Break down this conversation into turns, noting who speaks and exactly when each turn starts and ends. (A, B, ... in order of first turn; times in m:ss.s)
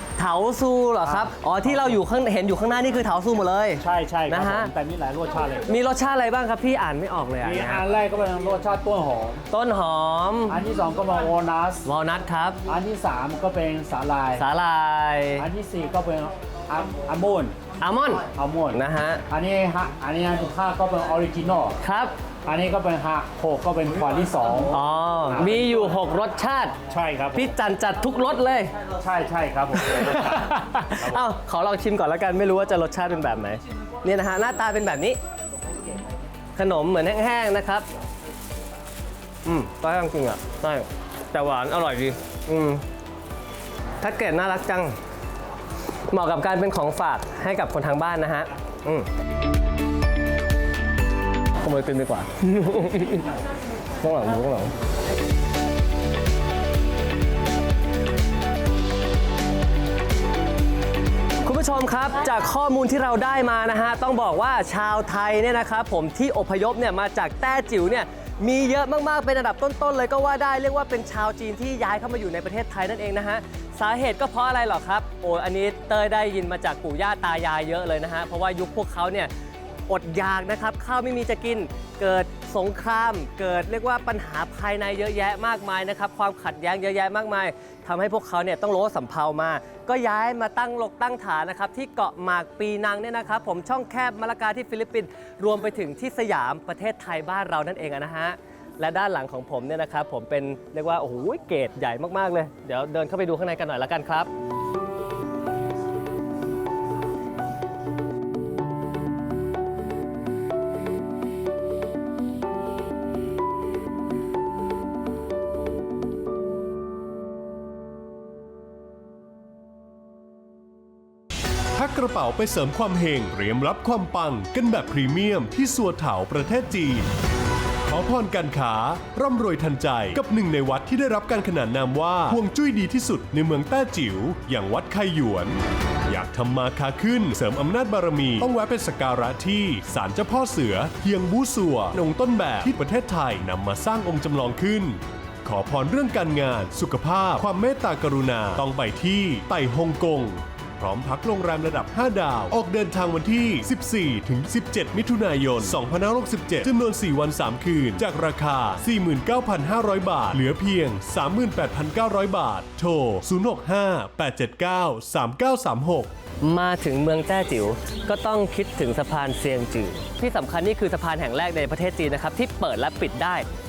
0:00.2-0:04.7 A
0:01.0-0:02.0 B
0:03.8-0:05.6 B
0:05.7-0:07.8 A
0:07.4-0:09.4 B
0:09.5-0:10.6 A
0:10.5-0:11.8 B
0:11.8-0:12.6 A
0:12.7-0:14.4 B
0:14.4-0:15.5 A
0:15.4-0:17.6 B
0:17.8-0:19.2 A
0:18.3-0:18.8 B
0:19.3-0:21.8 B
0:21.8-0:22.1 A
0:22.5-0:24.8 B
0:24.7-0:26.8 A
0:26.9-0:27.5 B
0:27.3-0:28.7 A
0:29.0-0:31.2 B
0:29.8-0:35.2 A
0:36.6-0:37.9 A
0:39.4-0:42.8 A
0:44.0-0:45.0 A
0:46.1-0:49.1 A
0:51.6-0:53.3 A
0:54.0-0:54.7 A
1:01.4-1:19.3 A
1:19.9-1:44.3 A
2:01.7-2:07.1 C
2:07.9-2:46.1 C
2:46.4-2:53.5 A